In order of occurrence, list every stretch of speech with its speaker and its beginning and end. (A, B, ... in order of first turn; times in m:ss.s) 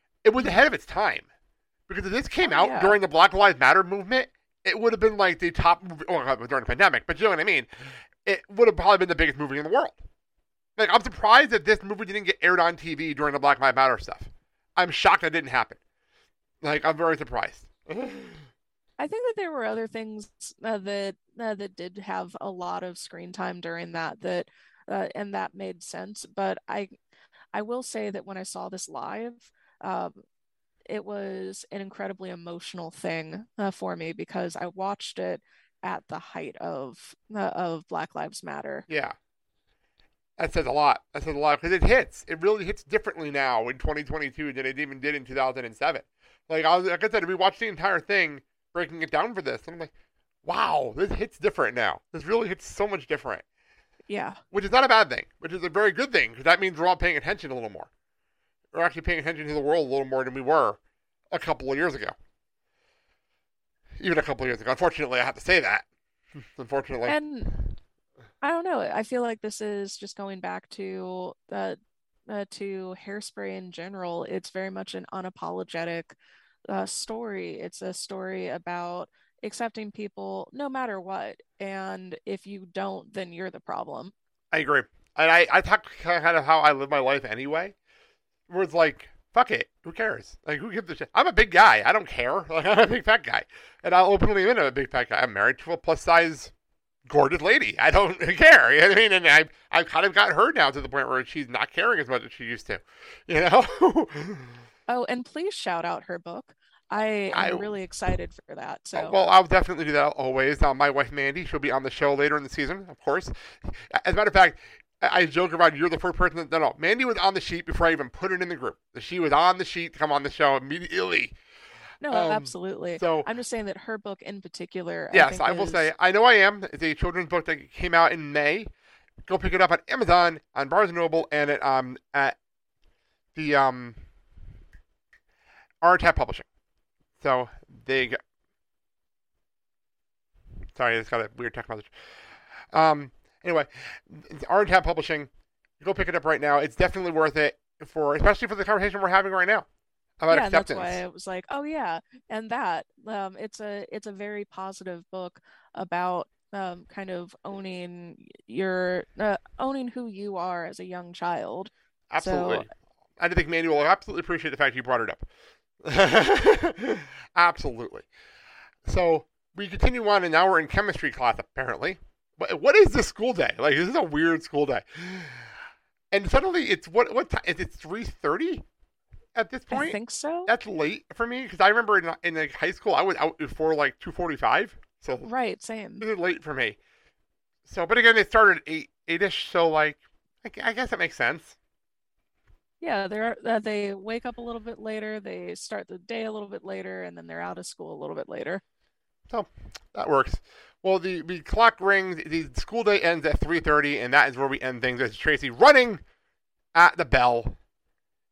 0:00.2-0:01.2 A
0:01.9-0:07.7 A
0:02.4-0:03.0 B
0:08.2-0:10.0 A
0:10.8-0:15.8 A
0:16.6-0:18.4 A
0:19.0-0:26.9 B
0:27.5-0:30.2 B
0:30.9-0:38.8 B
0:38.9-0:39.2 A
0:40.4-0:49.9 A
0:50.4-0:53.4 A
0:54.1-0:54.4 B
0:54.5-0:57.9 A
0:58.7-1:00.8 A
1:01.3-1:02.1 A
1:04.0-1:05.8 A
1:06.5-1:07.7 A
1:07.1-1:07.5 B
1:08.4-1:16.1 B
1:16.7-1:24.1 B
1:24.5-1:27.7 A
1:28.5-1:36.5 A
1:37.0-1:44.5 A
1:44.9-1:49.2 B
1:47.3-1:47.7 A
1:48.9-2:01.4 A
2:02.0-2:05.9 B
2:02.1-2:03.3 A
2:05.1-2:08.7 A
2:09.2-2:12.3 A
2:13.3-2:14.0 A
2:15.8-2:16.4 A
2:17.2-2:18.2 A
2:20.7-2:21.9 A
2:22.7-2:25.3 A
2:25.8-2:29.6 A
2:30.2-2:31.0 A
2:30.3-2:42.7 B
2:42.1-2:42.7 A
2:43.2-2:45.2 A
2:45.8-2:48.1 A
2:48.8-2:55.4 A
2:56.1-2:58.6 A
2:59.3-3:05.3 A
2:59.7-3:00.5 B
3:05.2-3:06.0 B
3:06.0-3:06.8 A
3:07.6-3:11.6 A
3:12.8-3:18.6 B
3:19.3-3:26.0 A
3:26.7-3:27.6 A